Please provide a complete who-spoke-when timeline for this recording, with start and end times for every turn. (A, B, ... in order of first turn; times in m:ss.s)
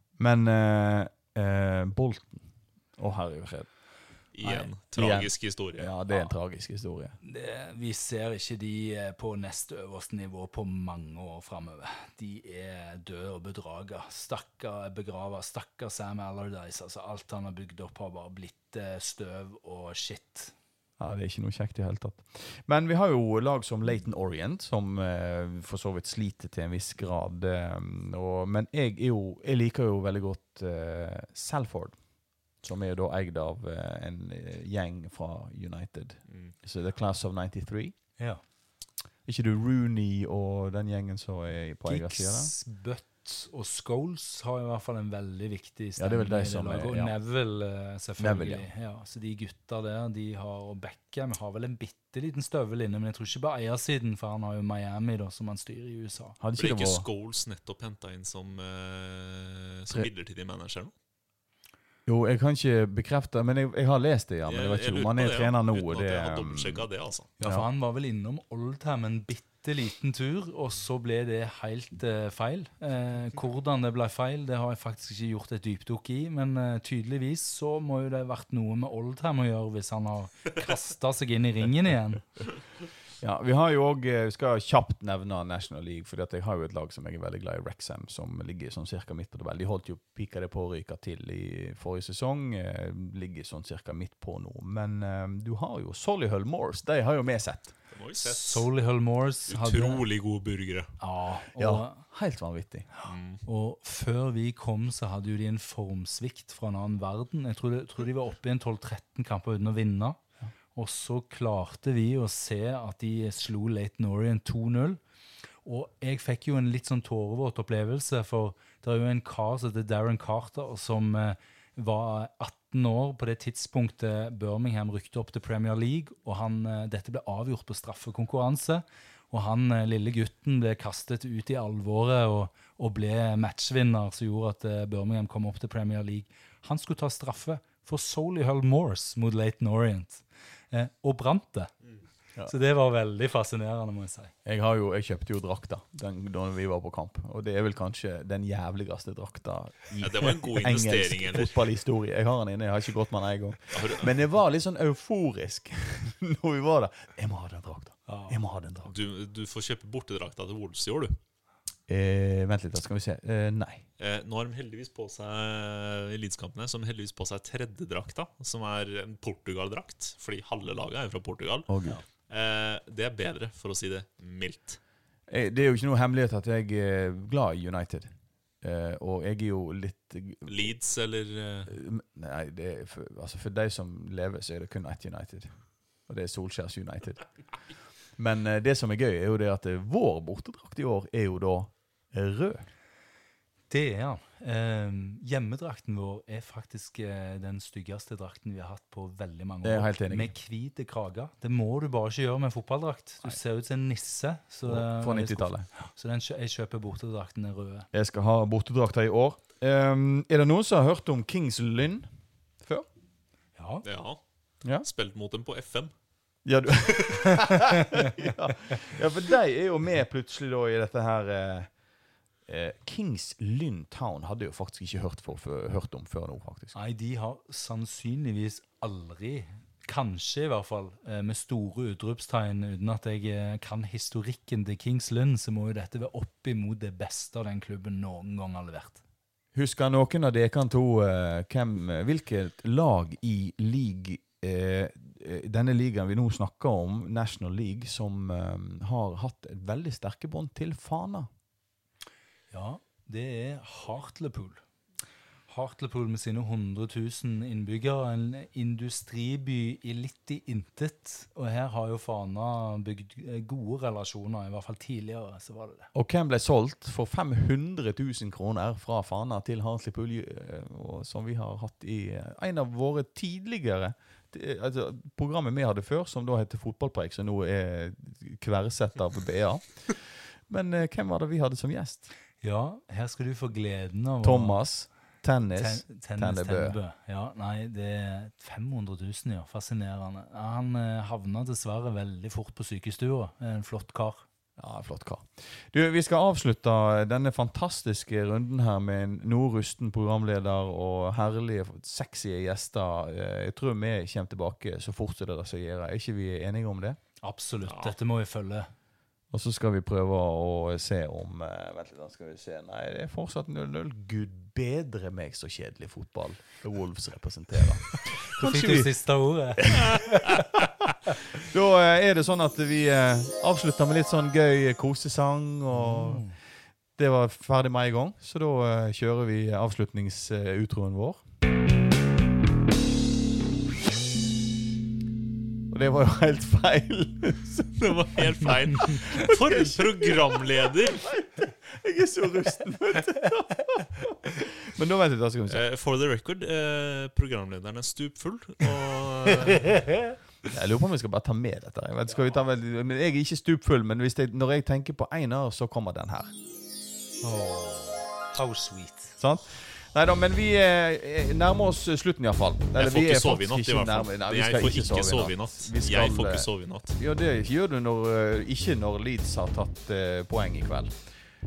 0:00.2-0:03.7 A
0:04.3-0:05.9 B
0:04.5-0:07.2 A
0:07.2-0:20.5 C
0:21.0-0:32.0 A
0:32.6-0:37.9 A
0:36.3-0:36.5 B
0:39.2-0:42.5 A
0:41.8-0:56.4 C
0:46.0-0:47.1 A
0:48.2-0:48.6 A
0:56.4-0:57.0 A
0:56.6-1:00.9 B
1:02.0-1:06.8 A
1:04.4-1:07.3 B
1:07.4-1:22.3 C
1:07.4-1:07.6 A
1:23.2-1:37.8 A
1:37.9-1:38.7 B
1:38.2-1:40.0 C
1:39.5-1:41.0 B
1:41.0-1:42.0 C
1:41.6-1:42.9 A
1:43.0-1:50.2 C
1:43.0-1:43.4 B
1:50.7-1:55.0 C
1:55.6-2:21.7 C
2:22.4-2:24.3 C
2:24.4-2:38.9 A
2:30.0-2:31.6 B
2:33.7-2:34.1 B
2:38.1-2:38.4 C
2:38.9-2:41.2 B
2:41.9-2:43.8 A
2:44.0-2:54.8 B
2:51.7-2:52.0 A
2:55.3-3:00.7 A
3:00.5-3:01.7 B
3:01.7-3:12.7 A
3:13.7-3:27.9 C
3:19.6-3:20.3 A
3:24.6-3:25.7 A
3:27.9-3:32.1 A
3:32.6-3:32.8 A
3:33.6-3:33.8 C
3:33.8-3:34.2 B
3:34.8-3:35.9 B
3:36.4-3:41.7 A
3:42.4-3:46.7 A
3:46.7-3:59.0 C
3:59.5-4:11.3 A
4:12.5-4:14.6 C
4:15.5-4:25.9 C
4:25.9-4:42.1 A
4:42.4-4:44.6 C
4:44.2-4:46.8 A
4:45.5-4:54.2 C
4:54.6-5:07.0 A
5:07.2-5:08.7 C
5:07.6-5:07.9 B
5:09.3-5:18.9 A
5:18.4-5:20.5 C
5:19.6-5:20.0 A
5:21.4-5:26.3 A
5:25.7-5:26.4 C
5:27.0-5:31.2 A
5:35.7-5:37.8 A
5:37.8-5:41.2 B
5:38.8-5:45.6 A
5:45.5-5:49.8 B
5:50.5-5:56.3 A
5:57.2-5:59.2 C
5:59.2-6:11.0 A
6:02.8-6:07.0 B